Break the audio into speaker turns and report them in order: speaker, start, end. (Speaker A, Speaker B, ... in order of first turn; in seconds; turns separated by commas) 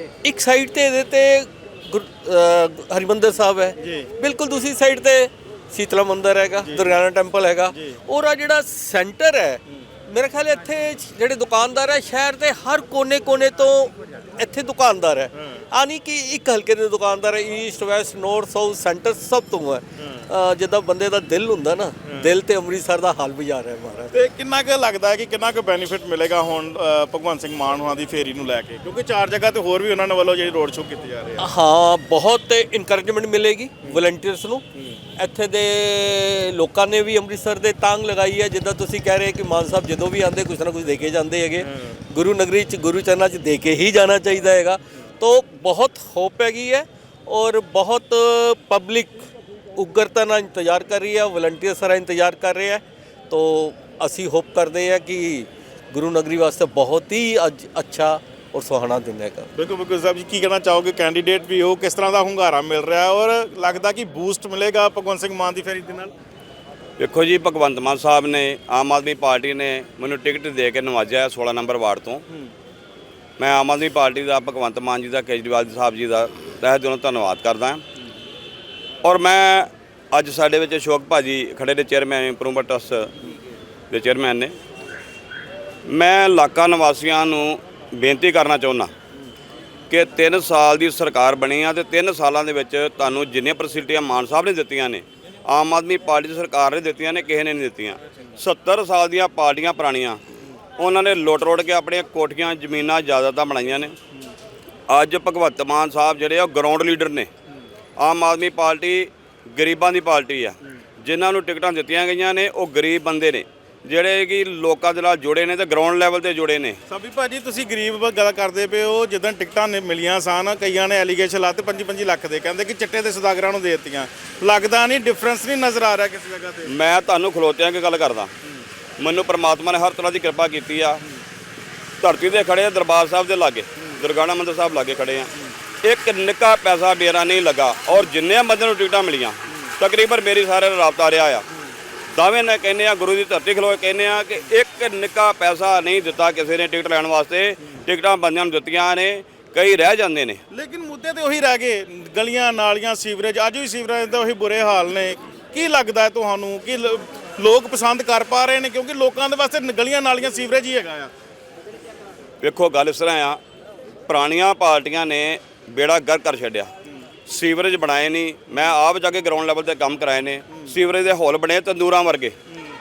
Speaker A: 0.2-24.1, Speaker B: 3.8-4.1, Speaker B: 6.6-7.0, Speaker B: 7.7-8.0, Speaker B: 15.4-15.6, Speaker B: 24.1-31.5, Speaker A: 31.4-34.6, Speaker A: 35.2-59.5, Speaker B: 59.5-66.1, Speaker C: 67.0-72.2, Speaker C: 73.4-77.8, Speaker C: 79.0-83.1, Speaker C: 83.9-84.5, Speaker C: 85.9-88.9, Speaker C: 89.9-100.2, Speaker C: 100.8-103.9, Speaker C: 104.9-107.3, Speaker C: 108.0-116.8, Speaker B: 116.9-126.7, Speaker C: 126.7-128.3, Speaker C: 129.0-131.0, Speaker C: 132.0-135.3, Speaker C: 135.8-141.4, Speaker C: 142.1-150.4, Speaker B: 150.5-161.1, Speaker C: 162.4-163.4, Speaker C: 164.1-166.7, Speaker C: 167.3-172.3